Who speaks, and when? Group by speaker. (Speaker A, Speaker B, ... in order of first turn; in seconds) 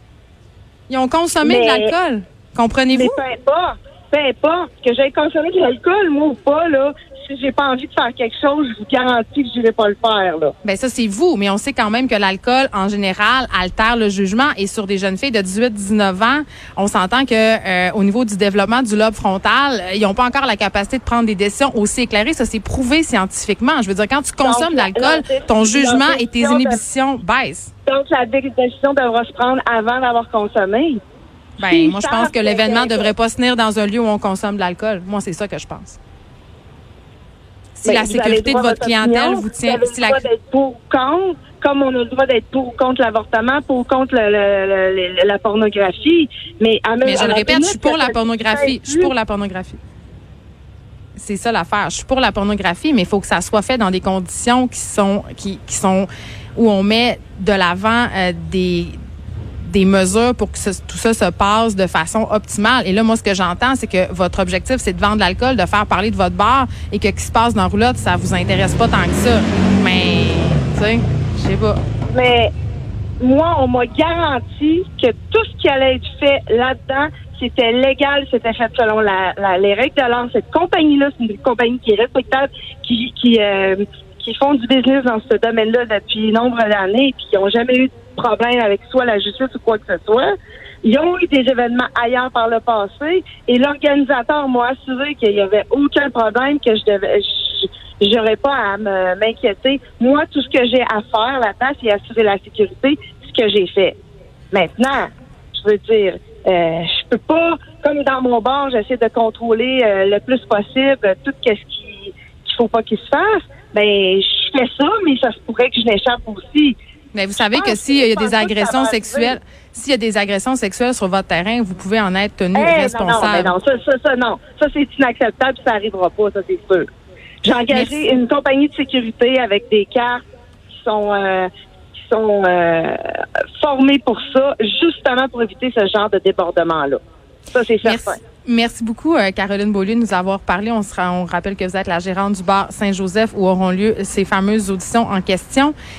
Speaker A: 0.9-3.2, 10.6-27.7, 31.6-36.0, 37.8-40.2, 47.0-49.8, 51.1-59.0, 59.6-71.8, 117.1-123.5, 127.7-128.0, 137.8-145.7
Speaker B: 1.4-1.9, 2.9-10.5, 24.4-26.8, 27.9-31.0, 31.6-33.1, 37.8-49.1, 72.1-72.5, 73.2-104.0, 104.5-116.8, 117.4-119.4, 122.5-126.9, 127.4-130.2, 130.7-133.0, 133.6-137.0, 137.5-138.2